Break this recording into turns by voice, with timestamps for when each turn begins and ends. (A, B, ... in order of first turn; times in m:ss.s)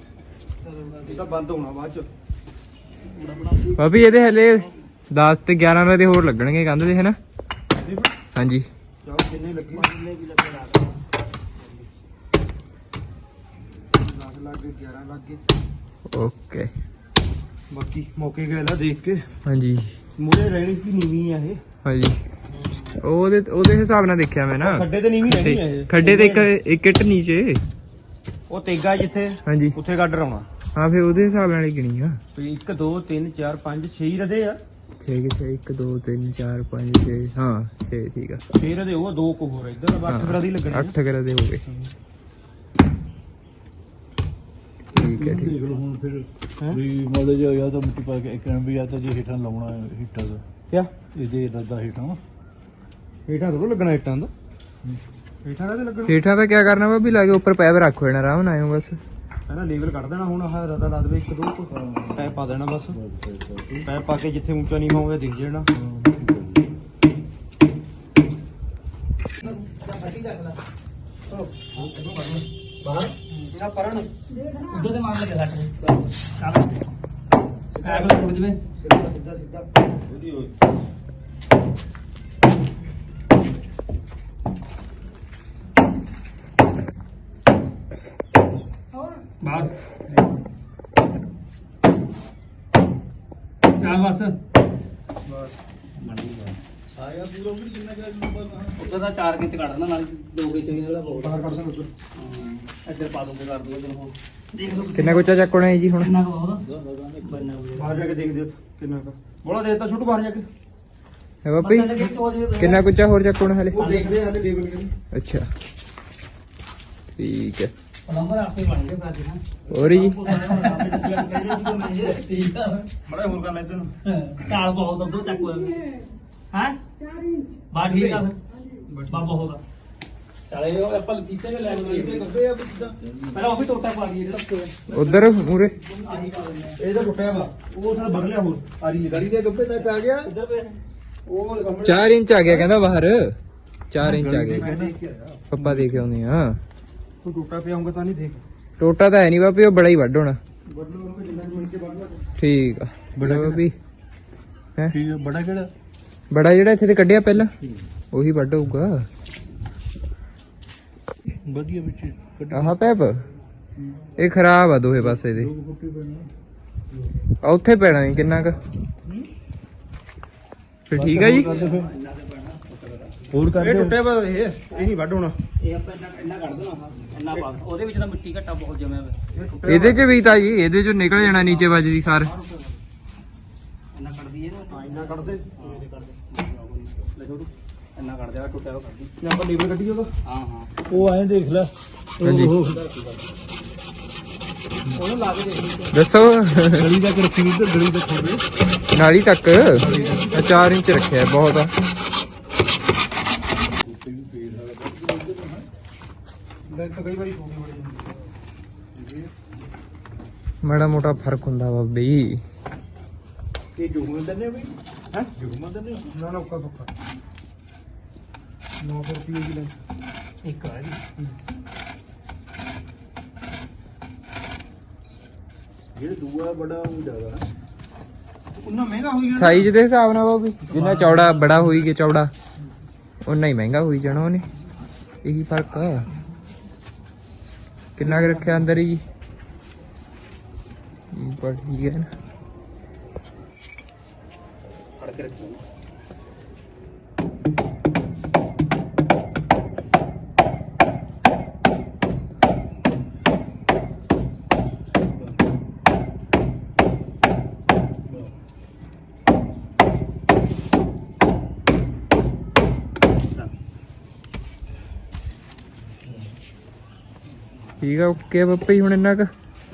0:00.6-0:01.3 A
0:01.0-0:02.1 B
0:03.1-0:03.8 A
0:03.7-0:07.2 C
0:07.7-0:08.1 B
0:08.4-0:08.7 C
0:09.0-0:09.8 B
0:09.7-0:11.9 A
0:13.9-0:15.4 B
0:16.1-0:16.7 C
0:17.7-0:19.3 B
0:19.4-0:19.9 C
0:20.2-0:21.6 B
0:21.8-0:22.2 C
0:22.5-0:23.0 B
0:23.0-0:27.6 C
0:24.6-0:26.5 B
0:28.5-0:30.5 B
0:29.5-0:29.8 C
0:30.8-0:32.2 C
0:32.4-0:34.6 B
0:35.0-0:38.4 C
0:38.5-0:41.0 B
0:40.1-0:41.6 C
0:44.9-0:45.6 C
0:45.0-0:50.4 D
0:51.1-0:52.2 D
0:53.3-0:54.3 B
0:55.4-0:56.2 B
0:56.1-0:59.0 C
0:59.5-1:03.0 B
1:01.7-1:02.4 D
1:02.9-1:03.9 D
1:03.9-1:05.7 B
1:05.8-1:06.7 D
1:09.4-1:10.6 A
1:11.3-1:12.5 B
1:12.8-1:13.1 A
1:13.3-1:14.1 B
1:14.5-1:16.8 A
1:17.8-1:18.3 B
1:17.8-1:18.6 A
1:18.8-1:20.5 B
1:29.4-1:29.8 A
1:33.7-1:34.4 A
1:36.0-1:36.6 A
1:37.0-1:38.8 D
1:38.8-1:41.4 A
1:41.2-1:41.9 B
1:42.1-1:45.5 A
1:45.0-1:46.1 C
1:46.0-1:46.7 A
1:46.6-1:47.6 D
1:47.2-1:48.0 A
1:47.7-1:50.5 B
1:51.4-1:53.8 C
1:51.6-1:52.9 A
1:53.7-1:54.9 B
1:53.8-1:54.2 A
1:55.1-1:55.5 C
1:57.2-1:57.7 C
1:58.1-1:59.4 A
1:59.7-2:02.2 B
1:59.7-2:00.3 C
2:00.3-2:02.9 A
2:03.1-2:03.9 B
2:04.1-2:05.9 A
2:06.5-2:06.8 A
2:07.7-2:08.4 A
2:07.8-2:08.2 B
2:08.9-2:09.3 B
2:09.1-2:09.6 A
2:10.5-2:12.3 A
2:10.8-2:13.4 D
2:13.3-2:14.9 A
2:14.9-2:15.8 C
2:15.8-2:16.8 A
2:16.0-2:16.4 D
2:16.8-2:19.3 B
2:19.1-2:20.3 D
2:20.2-2:20.8 A
2:21.3-2:22.7 B
2:21.8-2:23.4 C
2:23.9-2:24.7 C
2:24.0-2:26.0 D
2:24.5-2:25.0 B
2:25.5-2:26.6 C
2:27.2-2:28.4 B
2:28.8-2:30.4 C
2:30.7-2:32.2 B
2:32.4-2:33.7 C
2:33.2-2:33.7 D
2:34.9-2:35.7 D
2:36.3-2:37.5 C
2:38.1-2:39.1 C
2:41.3-2:42.8 D
2:42.5-2:43.2 C
2:43.8-2:44.1 D
2:44.2-2:45.5 C
2:45.0-2:46.3 D
2:47.4-2:48.6 C
2:50.9-2:51.5 C
2:50.9-2:51.9 D
2:51.2-2:53.3 A
2:53.3-2:54.0 D
2:53.5-2:55.4 B
2:55.6-2:59.5 A
2:59.3-3:00.2 B
2:59.7-3:02.3 C
3:02.3-3:02.8 B
3:03.9-3:09.1 A
3:04.7-3:06.2 B
3:09.2-3:10.1 B
3:10.2-3:10.7 A
3:10.9-3:13.2 D
3:12.2-3:12.6 C
3:15.0-3:15.9 A
3:15.9-3:16.9 C
3:16.8-3:18.4 D
3:18.9-3:21.7 C
3:19.8-3:20.6 D
3:19.8-3:20.3 B
3:23.8-3:25.7 D
3:26.7-3:28.3 B
3:28.9-3:29.3 D
3:30.6-3:32.4 C
3:33.8-3:34.8 D
3:35.4-3:36.1 D
3:36.1-3:36.9 B
3:38.8-3:39.7 B
3:40.4-3:41.0 A
3:46.0-3:47.4 D
3:48.6-3:49.7 B
3:49.3-3:52.3 C
3:50.7-3:51.6 A
3:53.2-3:54.5 C
3:55.2-3:56.1 C
3:58.0-3:59.0 C
3:58.0-3:58.7 B
4:01.1-4:02.1 C
4:05.0-4:05.6 A
4:27.8-4:29.3 C